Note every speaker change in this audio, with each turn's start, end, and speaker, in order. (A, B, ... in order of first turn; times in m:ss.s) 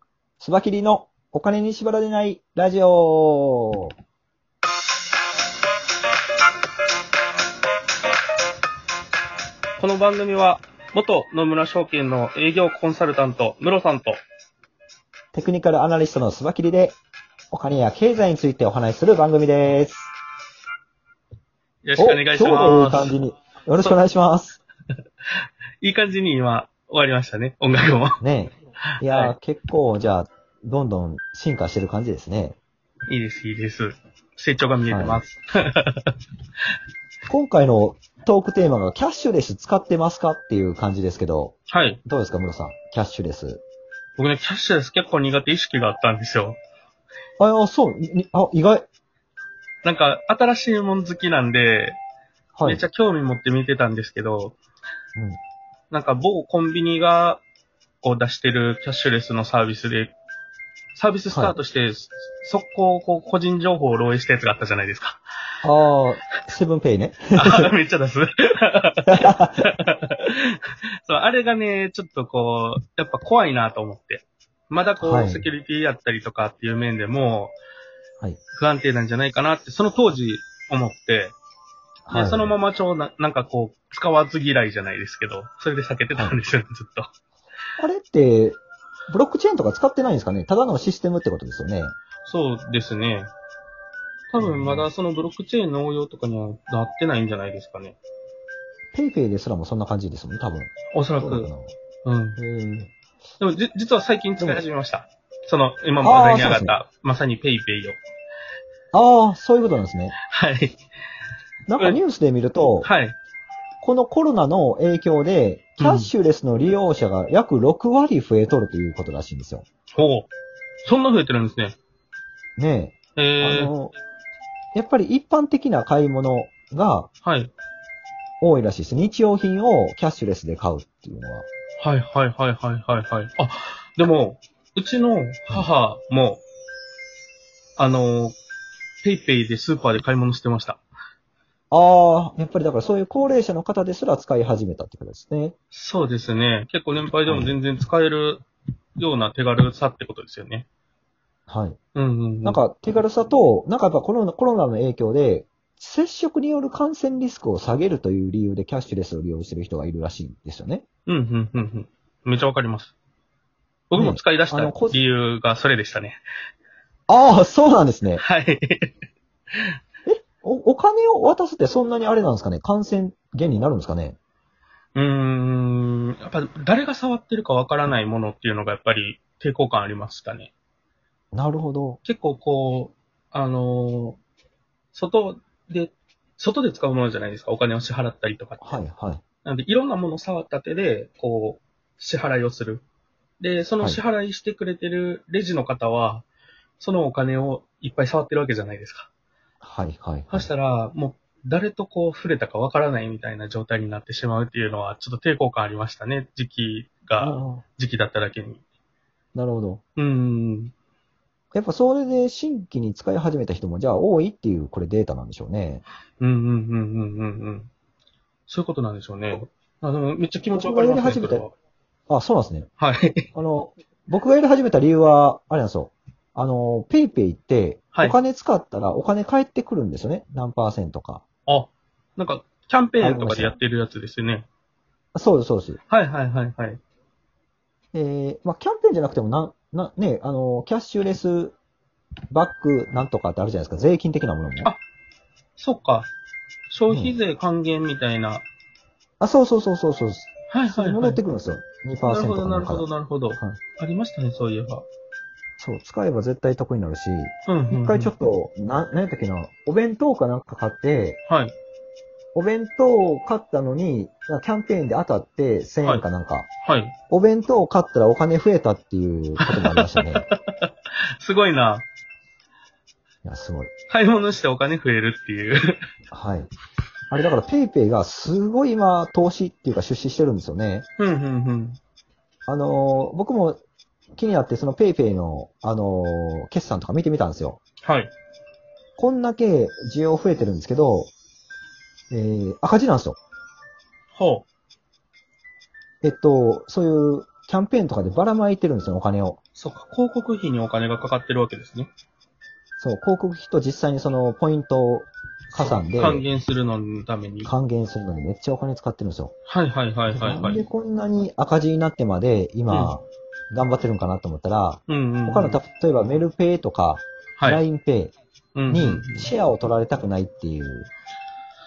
0:00.4-0:03.9 A
0:09.8-0:14.2 B
0:15.3-0:17.0 A
0:17.5-0:20.1 A
0:21.8-0:23.1 B
0:22.0-0:24.6 A
0:25.8-0:28.2 B
0:28.2-0:32.6 A
0:29.0-0:29.3 B
0:33.1-0:36.1 B
0:34.9-0:35.2 A
0:37.2-0:43.6 A
0:41.7-0:42.0 B
0:44.2-0:46.6 B
0:47.4-0:48.9 A
0:49.8-0:52.0 B
0:52.5-0:52.8 A
0:52.6-0:54.6 B
0:55.9-0:57.4 B
0:58.0-1:00.1 B
1:00.9-1:05.2 B
1:01.3-1:01.6 A
1:05.6-1:07.7 A
1:07.3-1:17.5 B
1:09.1-1:09.6 A
1:15.0-1:15.5 A
1:18.5-1:21.3 B
1:22.0-1:22.5 A
1:22.1-1:27.1 B
1:26.1-1:26.4 A
1:27.8-1:32.0 A
1:32.2-1:33.3 B
1:34.3-1:38.0 B
1:34.4-1:34.9 A
1:38.9-1:41.7 A
1:40.9-1:41.5 B
1:42.0-1:42.4 B
1:42.4-1:42.9 A
1:43.4-1:48.0 B
1:46.0-1:46.7 A
1:48.9-1:50.2 A
1:50.3-1:50.8 B
1:51.7-1:52.9 A
1:52.8-1:53.1 B
1:53.8-1:59.6 A
1:55.8-1:56.1 B
1:59.9-2:00.3 B
2:00.8-2:01.8 B
2:02.6-2:03.9 A
2:03.2-2:03.7 B
2:04.7-2:07.1 A
2:07.2-2:07.5 B
2:08.4-2:11.5 A
2:11.8-2:16.4 B
2:17.8-2:18.4 B
2:19.0-2:20.8 B
2:21.7-2:25.5 A
2:25.7-2:28.4 B
2:27.2-2:27.6 A
2:29.0-2:30.6 B
2:31.5-2:31.8 A
2:31.9-2:32.6 B
2:32.4-2:40.8 A
2:41.0-2:42.9 B
2:43.9-2:46.2 B
2:43.9-2:45.0 A
2:47.1-2:48.2 A
2:48.2-2:48.9 B
2:50.0-2:54.2 A
2:54.9-3:00.5 B
3:01.3-3:02.0 A
3:02.0-3:04.2 B
3:04.9-3:08.7 B
3:08.6-3:09.2 A
3:09.4-3:12.8 B
3:13.4-3:16.2 B
3:16.8-3:19.1 B
3:19.6-3:20.5 A
3:20.3-3:28.6 B
3:27.2-3:27.6 A
3:29.3-3:29.8 A
3:30.0-3:30.7 B
3:31.5-3:35.8 A
3:36.2-3:37.7 B
3:38.5-3:41.5 B
3:40.5-3:41.4 A
3:42.1-3:42.7 A
3:42.8-3:43.3 B
3:43.3-3:51.2 A
3:51.5-3:54.4 B
3:53.0-3:53.5 A
3:55.1-3:55.8 A
3:55.9-3:56.8 B
3:57.9-4:01.5 A
4:02.3-4:04.7 A
4:05.6-4:06.1 B
4:06.7-4:08.4 B
4:06.9-4:07.2 A
4:09.2-4:13.6 A
4:10.5-4:11.2 B
4:12.0-4:14.8 B
4:15.6-4:21.2 A
4:17.5-4:18.1 B
4:21.3-4:21.5 B
4:22.3-4:26.5 A
4:26.6-4:26.9 B
4:27.1-4:30.2 A
4:29.4-4:31.8 B
4:33.2-4:33.7 A
4:33.9-4:35.8 B
4:36.1-4:36.5 A
4:37.1-4:40.9 A
4:41.0-4:41.8 B
4:42.5-4:43.6 A
4:44.2-4:47.6 A
4:47.8-4:48.1 B
4:49.0-4:51.1 A
4:52.1-4:53.2 A
4:54.1-4:54.4 B
4:56.0-4:59.4 A
4:59.6-5:01.9 B
5:02.8-5:06.2 A
5:05.5-5:07.5 B
5:07.4-5:09.3 A
5:09.5-5:10.6 B
5:10.1-5:18.1 A
5:12.7-5:12.9 B
5:14.9-5:15.6 B
5:17.4-5:17.6 B
5:18.5-5:19.3 B
5:18.7-5:20.9 A